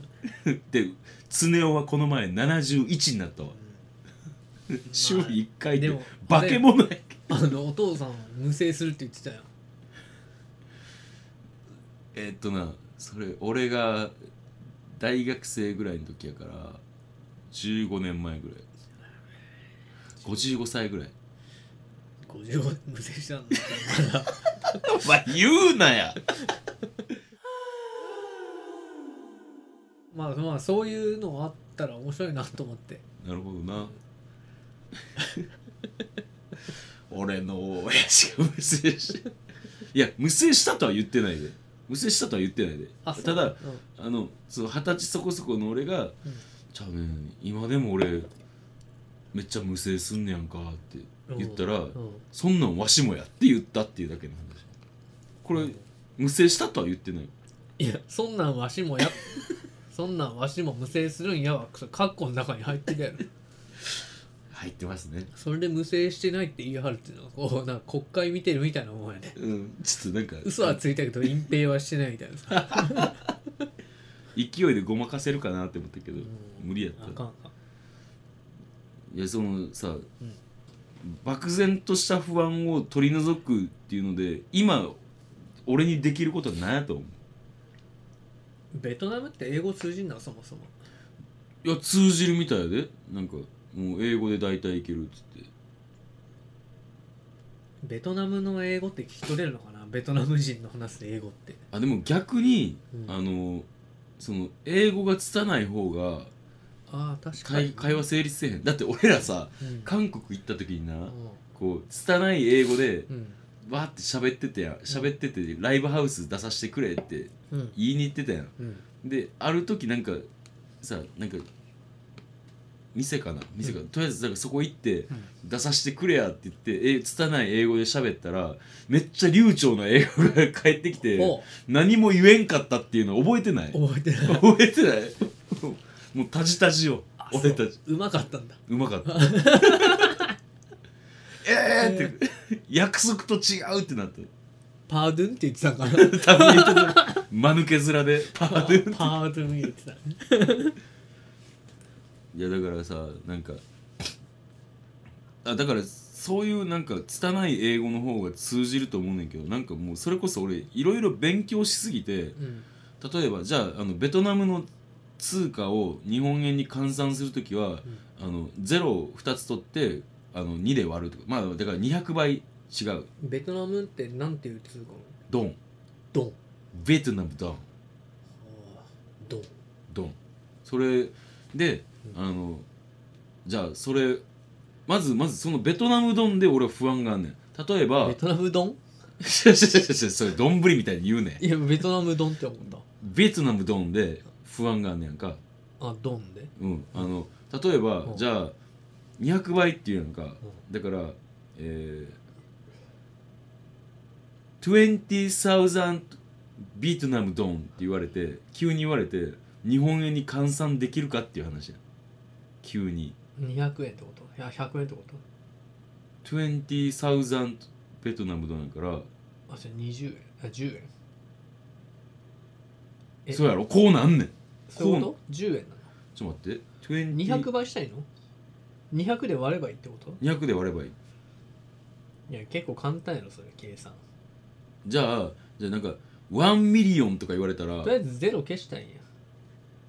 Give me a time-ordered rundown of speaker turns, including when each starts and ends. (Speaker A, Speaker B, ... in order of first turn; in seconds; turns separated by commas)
Speaker A: 0.2-3.5, Speaker B: 3.5-3.9, Speaker A: 4.7-7.4, Speaker B: 4.9-6.7, Speaker B: 7.3-9.5, Speaker A: 12.1-14.1, Speaker A: 15.0-16.8, Speaker A: 17.5-18.6, Speaker A: 20.2-21.1, Speaker B: 22.2-24.8, Speaker A: 24.7-26.2, Speaker B: 30.1-33.0, Speaker A: 33.2-33.9, Speaker A: 37.1-39.2, Speaker A: 39.9-46.1, Speaker B: 43.0-43.8, Speaker A: 46.7-48.3, Speaker A: 49.3-54.7, Speaker B: 51.3-52.2, Speaker A: 55.4-57.3, Speaker B: 55.5-55.8, Speaker B: 57.8-63.2, Speaker A: 64.5-65.3, Speaker B: 65.3-69.4, Speaker A: 69.4-70.8, Speaker B: 70.4-73.3, Speaker A: 72.7-73.1, Speaker A: 74.3-77.2, Speaker B: 76.2-77.5, Speaker A: 79.1-80.0, Speaker A: 81.0-85.0, Speaker A: 85.7-87.2, Speaker B: 88.7-90.7, Speaker A: 91.6-95.5, Speaker B: 97.8-101.6, Speaker A: 101.7-103.7, Speaker A: 104.2-106.3, Speaker B: 106.9-108.0, Speaker A: 107.4-113.1, Speaker B: 109.6-109.9, Speaker B: 111.1-111.4, Speaker B: 113.1-113.4, Speaker A: 113.6-120.3, Speaker B: 117.5-117.8, Speaker B: 118.6-118.8, Speaker A: 120.8-121.5, Speaker A: 122.9-137.8, Speaker B: 131.1-131.5, Speaker B: 133.7-134.5, Speaker B: 137.2-140.3, Speaker A: 138.7-140.1, Speaker A: 141.4-144.3, Speaker B: 141.8-142.2, Speaker B: 144.9-147.2, Speaker A: 145.9-149.2, Speaker B: 148.4-150.7, Speaker A: 152.3-154.1, Speaker A: 155.4-162.4, Speaker B: 162.4-162.7, Speaker A: 163.0-164.7, Speaker A: 165.2-173.1, Speaker B: 173.2-175.2, Speaker A: 175.3-175.6, Speaker A: 176.7-177.7, Speaker B: 178.4-179.5, Speaker A: 179.9-182.7, Speaker A: 183.4-184.2, Speaker A: 184.9-188.2, Speaker B: 188.0-188.8, Speaker A: 189.2-191.4, Speaker B: 191.4-192.8, Speaker A: 193.0-195.4, Speaker B: 195.8-197.1, Speaker A: 196.6-198.5, Speaker A: 199.2-202.2, Speaker A: 204.6-211.8, Speaker A: 212.6-213.2, Speaker B: 213.4-215.2, Speaker A: 216.2-219.1, Speaker B: 219.5-220.9, Speaker A: 223.3-225.1, Speaker B: 224.7-225.9, Speaker A: 226.2-227.5, Speaker B: 227.1-228.1, Speaker B: 228.9-230.2, Speaker A: 230.2-230.9, Speaker B: 232.3-234.0, Speaker A: 234.8-237.9, Speaker B: 237.8-239.1